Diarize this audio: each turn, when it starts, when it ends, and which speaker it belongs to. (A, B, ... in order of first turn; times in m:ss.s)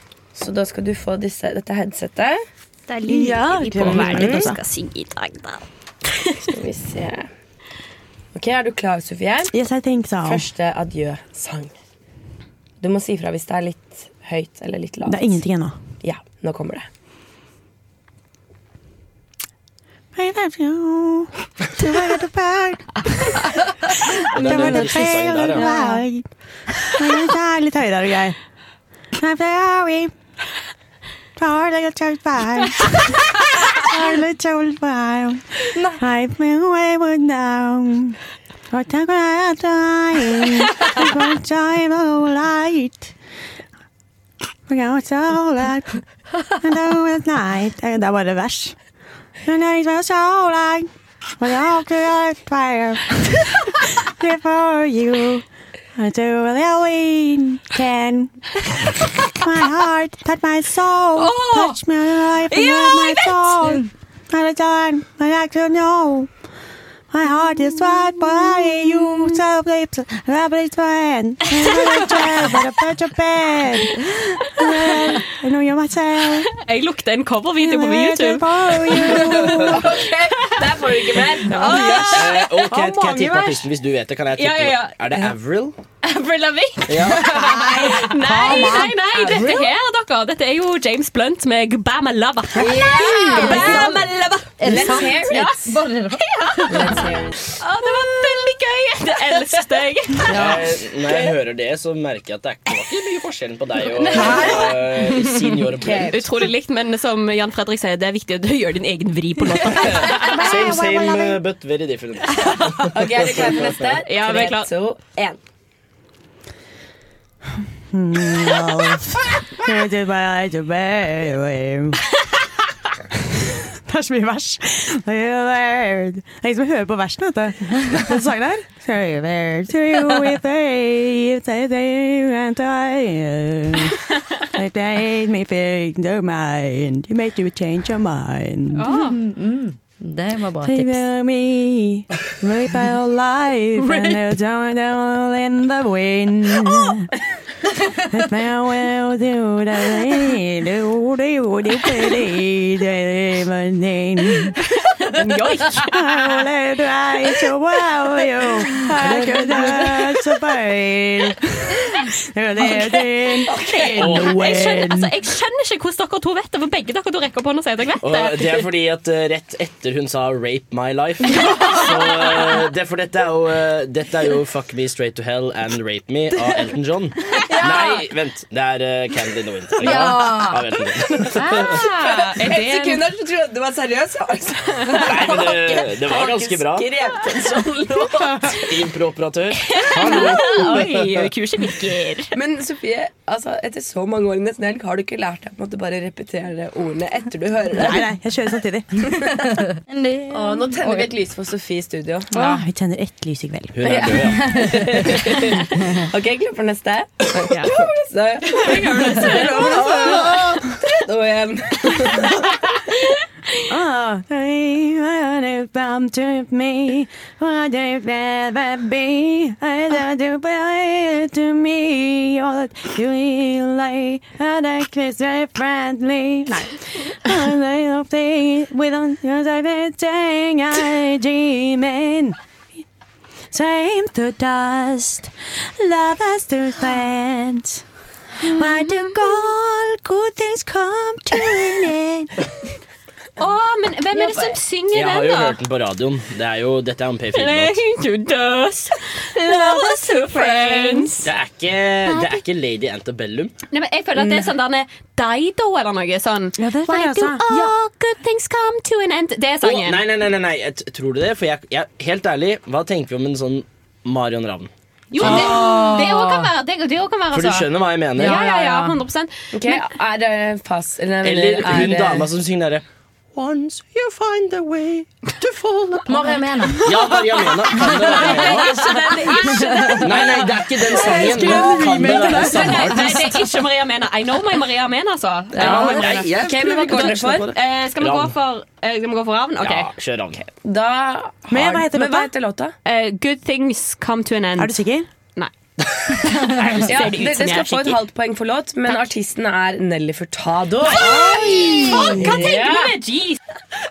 0:00.3-0:02.4 A
0:02.9-0:05.6 B
0:03.0-0:04.6 C
0:03.8-0:04.5 A
0:06.4-0:07.3 A
0:08.3-0:09.5 A
0:09.5-0:10.4 C
0:10.2-0:11.7 A
0:12.8-0:15.4 A
0:15.0-0:15.8 C
0:16.0-0:16.9 A
0:20.1-0:23.4 C
0:24.0-0:26.2 C
0:24.3-0:25.6 D
0:25.6-0:26.0 E
0:26.8-0:28.4 C
0:29.1-0:30.1 C
0:31.4-0:38.2 C
0:35.7-0:36.0 E
0:38.7-0:43.1 C
0:44.7-0:48.8 C
0:49.4-0:58.4 C
0:59.2-1:06.3 C
1:01.2-1:01.8 B
1:02.5-1:03.7 B
1:07.1-1:16.5 C
1:16.5-1:23.6 B
1:17.6-1:19.8 C
1:19.7-1:22.2 A
1:22.0-1:25.8 D
1:24.4-1:25.3 B
1:26.0-1:40.3 B
1:26.9-1:27.3 D
1:27.4-1:29.0 C
1:29.1-1:29.6 A
1:32.6-1:33.9 A
1:33.1-1:34.1 C
1:33.4-1:34.0 E
1:34.6-1:37.1 E
1:34.6-1:35.7 A
1:36.7-1:37.2 A
1:40.3-1:46.2 D
1:44.1-1:44.6 A
1:44.1-1:44.5 B
1:45.8-1:46.2 A
1:46.1-1:50.4 B
1:49.6-1:53.7 D
1:50.1-1:51.4 C
1:52.9-1:55.4 A
1:54.1-1:54.7 B
1:57.9-2:02.0 C
2:03.3-2:19.1 C
2:18.8-2:19.2 B
2:18.8-2:21.0 E
2:20.6-2:27.1 C
2:28.1-2:34.6 C
2:35.1-2:36.3 B
2:35.7-2:45.1 C
2:43.0-2:48.6 B
2:43.9-2:44.8 D
2:48.0-3:01.8 D
2:59.8-3:00.8 E
3:01.4-3:08.6 A
3:02.4-3:02.9 B
3:05.0-3:06.9 D
3:08.4-3:11.3 D
3:09.7-3:12.3 B
3:10.2-3:11.0 A
3:12.3-3:18.0 A
3:17.7-3:18.9 C
3:19.8-3:21.1 E
3:20.3-3:22.3 A
3:22.3-3:23.7 C
3:22.3-3:22.6 E
3:23.7-3:24.7 D
3:23.8-3:32.4 A
3:24.5-3:24.8 E
3:28.5-3:30.2 B
3:33.7-3:52.4 C
3:53.5-3:57.8 C
3:58.4-4:02.3 C
4:03.4-4:05.6 B
4:04.2-4:04.6 A
4:04.9-4:07.8 D
4:07.3-4:11.2 B
4:09.4-4:11.3 C
4:11.2-4:13.5 D
4:13.7-4:20.0 B
4:14.2-4:14.4 A
4:16.6-4:17.7 C
4:19.6-4:25.9 D
4:25.1-4:29.8 B
4:25.2-4:26.5 E
4:27.3-4:28.4 D
4:28.2-4:28.9 A
4:29.5-4:32.3 A
4:31.2-4:38.9 D
4:36.1-4:37.1 E
4:37.5-4:40.4 B
4:37.8-4:38.4 E
4:39.8-4:43.4 D
4:40.9-4:43.3 C
4:41.5-4:46.2 B
4:45.5-4:47.5 A
4:45.5-4:48.3 D
4:46.9-4:49.9 B
4:49.6-4:50.4 D
4:50.6-4:52.7 A
4:51.5-4:52.3 C
4:52.8-4:55.5 B
4:54.6-4:55.1 C
4:56.3-4:58.0 B
4:56.5-4:57.1 D
4:56.8-5:03.0 A
5:00.9-5:03.4 B
5:00.9-5:02.3 C